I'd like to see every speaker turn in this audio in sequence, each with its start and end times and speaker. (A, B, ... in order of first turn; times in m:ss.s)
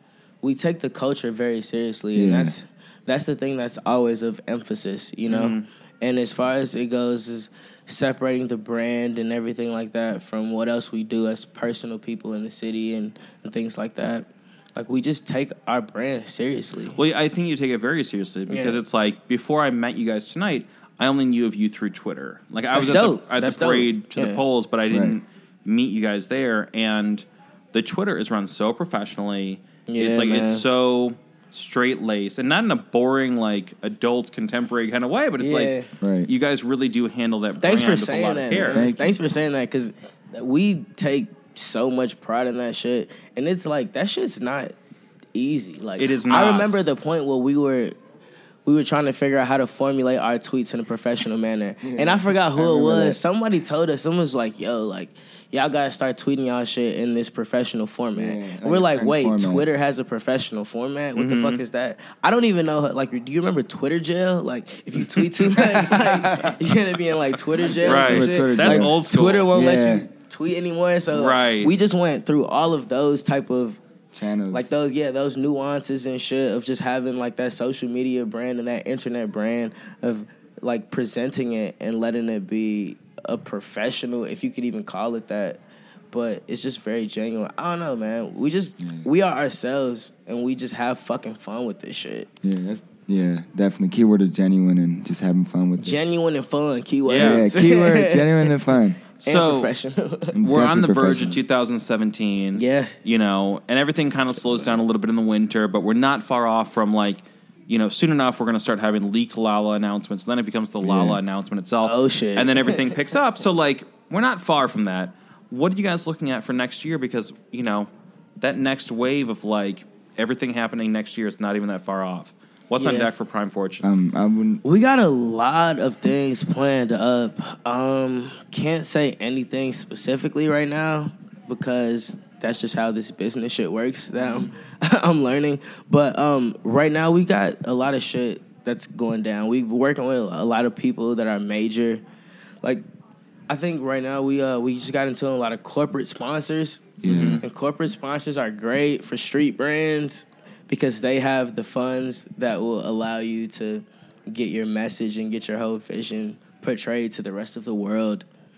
0:00.4-0:17.0 A
0:02.1-0:02.6 B
0:05.3-0:05.7 C
0:16.9-0:38.8 C
0:18.5-0:18.8 A
0:22.7-0:24.4 A
0:24.9-0:25.2 B
0:29.9-0:30.6 A
0:35.4-0:35.9 A
0:36.0-0:36.3 B
0:37.6-0:44.7 A
0:38.6-0:39.2 B
0:45.4-0:48.0 A
0:46.0-0:46.8 C
0:48.6-1:13.8 A
0:51.8-0:53.2 B
0:58.2-0:59.7 B
1:01.2-1:01.6 C
1:05.4-1:06.6 B
1:07.6-1:09.0 B
1:07.8-1:09.5 C
1:09.5-1:10.1 B
1:11.1-1:11.8 C
1:14.1-1:14.7 B
1:14.5-1:32.3 A
1:28.8-1:29.1 B
1:32.4-1:36.0 B
1:35.8-1:38.6 A
1:37.1-1:37.4 C
1:37.2-1:39.0 B
1:39.2-1:39.7 C
1:39.2-1:40.4 A
1:40.3-1:41.4 B
1:40.4-1:57.9 C
1:42.5-1:43.0 A
1:50.8-1:51.2 B
1:51.8-1:53.0 A
1:58.4-2:03.9 C
2:02.8-2:03.1 A
2:03.8-2:04.6 B
2:04.6-2:22.0 A
2:23.5-2:38.2 A
2:27.0-2:27.4 B
2:27.0-2:27.4 C